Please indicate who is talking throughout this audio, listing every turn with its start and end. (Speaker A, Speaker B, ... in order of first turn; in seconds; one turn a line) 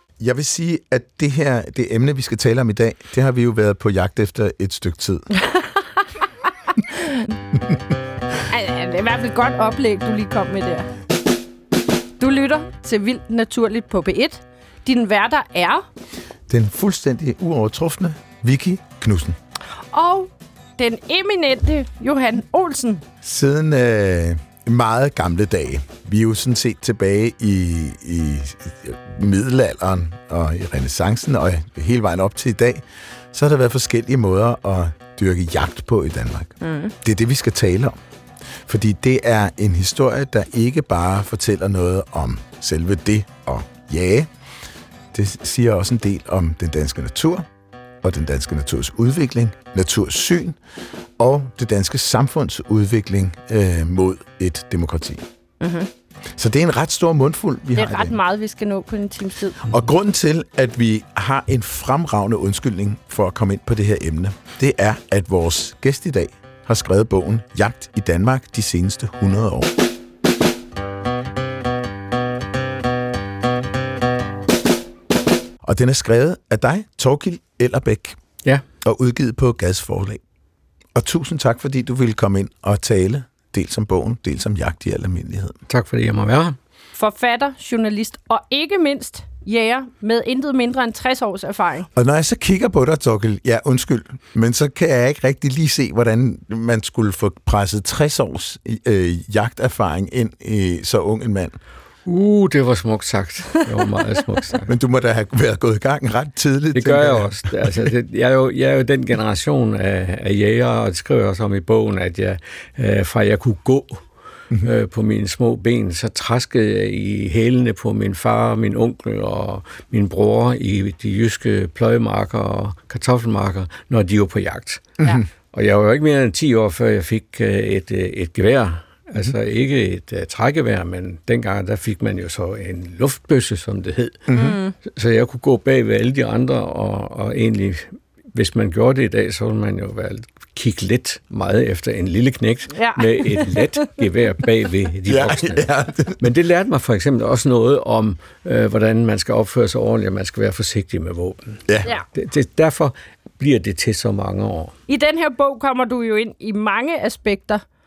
Speaker A: 0.2-5.3
Speaker B: 5.5-5.8
Speaker B: 8.5-10.9
Speaker B: 12.2-15.8
Speaker A: 16.5-19.4
Speaker B: 19.9-23.0
Speaker A: 23.2-38.0
Speaker B: 36.6-36.9
Speaker A: 38.6-44.3
Speaker A: 45.1-47.5
Speaker A: 48.0-50.6
Speaker A: 51.2-55.2
Speaker B: 55.6-55.9
Speaker A: 56.4-58.2
Speaker B: 57.8-59.6
Speaker A: 59.7-69.7
Speaker A: 75.6-78.2
Speaker A: 78.8-80.2
Speaker A: 81.0-85.6
Speaker C: 85.7-86.6
Speaker B: 87.0-91.9
Speaker A: 92.0-101.6
Speaker C: 102.1-104.7
Speaker A: 104.7-107.9
Speaker C: 106.8-114.0
Speaker C: 114.6-125.0
Speaker A: 125.0-125.3
Speaker C: 125.5-154.7
Speaker A: 134.3-134.6
Speaker B: 134.3-134.7
Speaker B: 142.8-143.8
Speaker A: 145.1-146.2
Speaker B: 154.9-157.6